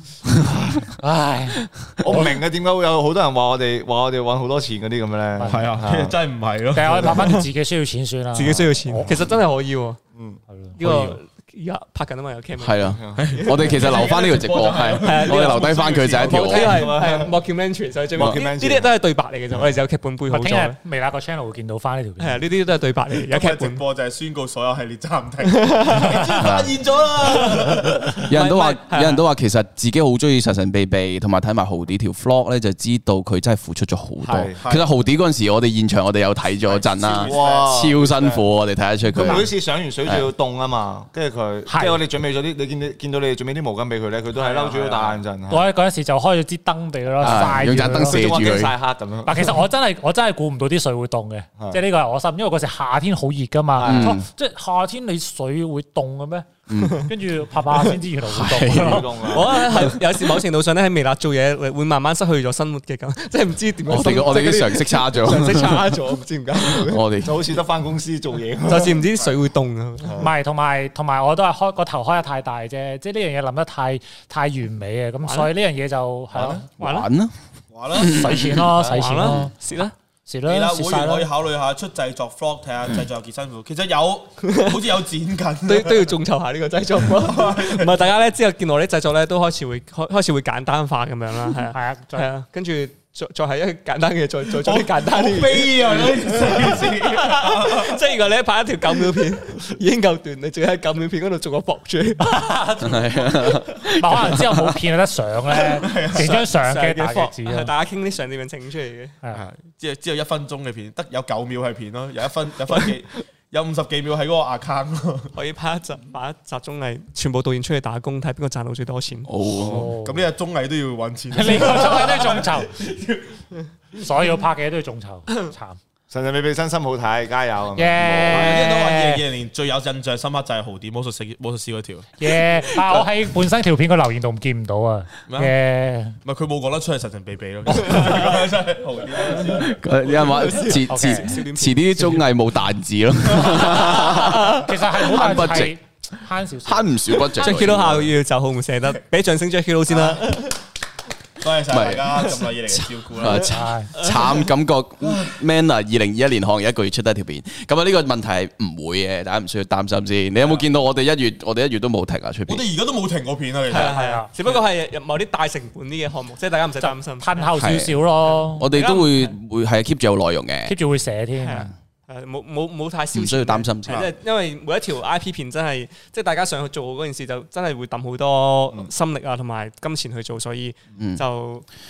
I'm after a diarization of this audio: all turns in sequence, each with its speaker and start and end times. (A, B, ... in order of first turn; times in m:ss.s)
0:00.3-0:00.9 A
0:01.0-0:02.3 B
0:02.0-0:06.1 A
0:05.4-0:05.7 B
0:05.4-0:07.4 C
0:06.7-0:09.2 B
0:07.0-0:07.4 D
0:08.3-0:10.0 D
0:10.1-0:10.4 A
0:10.5-0:11.1 B
0:10.8-0:14.1 D
0:12.6-0:16.9 E
0:12.9-0:13.3 A
0:13.2-0:16.8 C
0:15.0-0:20.8 D
0:16.2-0:17.3 A
0:18.1-0:18.9 A
0:20.3-0:22.4 B
0:22.2-0:23.8 D
0:23.1-0:28.2 C
0:25.5-0:26.3 D
0:26.4-0:26.7 E
0:28.2-0:29.2 D
0:28.2-0:39.5 E
0:34.2-0:34.6 A
0:34.6-0:34.9 C
0:36.6-0:37.8 C
0:37.2-0:38.4 A
0:39.1-0:45.7 A
0:39.2-0:39.4 B
0:41.7-0:42.0 B
0:44.3-0:45.2 C
0:45.5-0:48.4 B
0:47.2-0:48.7 E
0:47.2-0:49.6 A
0:49.2-0:59.1 B
0:53.8-0:54.2 A
0:53.8-0:54.2 E
0:56.7-0:57.1 E
0:58.3-0:59.9 E
0:58.7-0:59.6 A
0:59.2-1:07.0 D
1:03.9-1:05.9 E
1:06.8-1:07.5 E
1:07.2-1:09.0 A
1:08.6-1:10.3 D
1:10.1-1:17.0 B
1:15.2-1:15.5 D
1:16.8-1:17.1 D
1:16.8-1:17.3 E
1:17.7-1:18.4 C
1:17.9-1:19.5 E
1:18.0-1:19.5 B
1:18.8-1:19.9 D
1:20.3-1:21.3 B
1:20.4-1:26.1 C
1:24.4-1:24.8 D
1:25.6-1:42.4 D
1:27.1-1:28.0 C
1:31.7-1:32.3 B
1:34.6-1:38.0 C
1:42.2-1:47.7 B
1:42.8-1:44.8 E
1:45.6-1:46.4 C
1:46.1-1:49.1 D
1:49.3-1:55.3 C
1:55.3-1:59.3 D
1:59.3-1:59.9 E
1:59.6-2:03.3 C
1:59.6-2:00.2 B
2:01.3-2:02.8 B
2:04.0-2:05.8 B
2:06.1-2:08.3 A
2:07.7-2:09.2 B
2:08.0-2:08.6 E
2:08.3-2:12.2 C
2:12.2-2:16.2 B
2:15.3-2:15.5 C
2:16.2-2:20.4 C
2:19.6-2:25.8 E
2:20.2-2:22.3 D
2:20.9-2:21.3 B
2:23.3-2:23.8 C
2:24.2-2:27.6 B
2:26.6-2:28.1 E
2:27.4-2:30.6 D
2:29.9-2:30.4 C
2:31.4-2:33.5 C
2:31.7-2:42.6 E
2:33.5-2:34.0 B
2:33.9-2:34.4 D
2:35.0-2:35.4 C
2:40.4-2:40.7 C
2:42.5-2:44.0 C
2:43.7-2:47.5 D
2:43.7-2:44.3 B
2:47.2-2:48.7 B
2:47.6-2:48.0 E
2:48.3-2:49.3 D
2:48.6-2:50.8 E
2:50.7-2:51.7 B
2:51.4-3:01.6 D
2:53.1-2:54.1 E